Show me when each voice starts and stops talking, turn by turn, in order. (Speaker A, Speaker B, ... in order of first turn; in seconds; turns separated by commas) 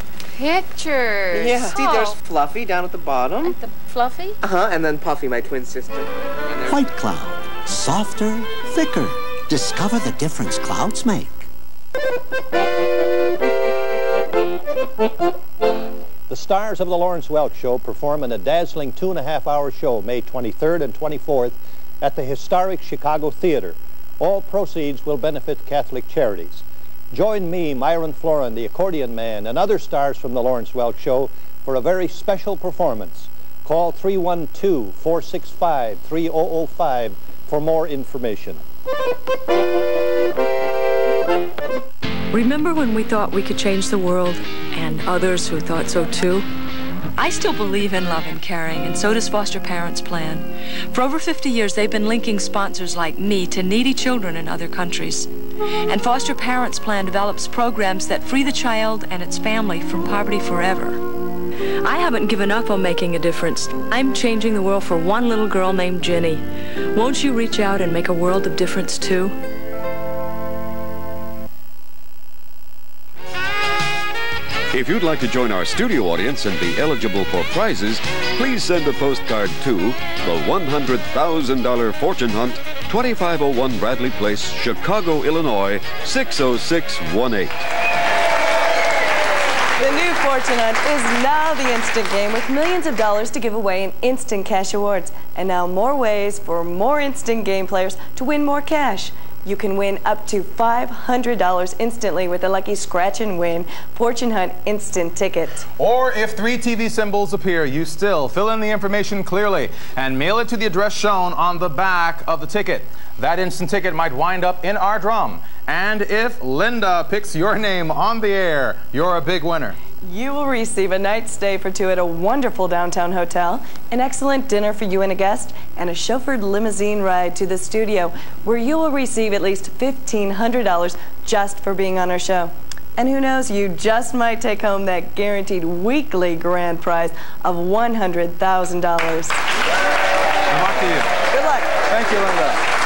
Speaker A: 0.3-2.2, Speaker B: 1.3-3.5, Speaker A: 3.4-4.3, Speaker B: 4.4-6.8, Speaker C: 6.7-11.5, Speaker D: 16.3-38.6, Speaker E: 42.3-46.5, Speaker E: 47.1-55.3, Speaker E: 55.9-61.0, Speaker E: 61.8-69.3, Speaker F: 74.7-87.6, Speaker G: 89.8-105.7, Speaker H: 105.8-119.8, Speaker G: 120.0-139.4, Speaker H: 140.5-141.1, Speaker G: 141.3-141.8, Speaker H: 141.9-142.6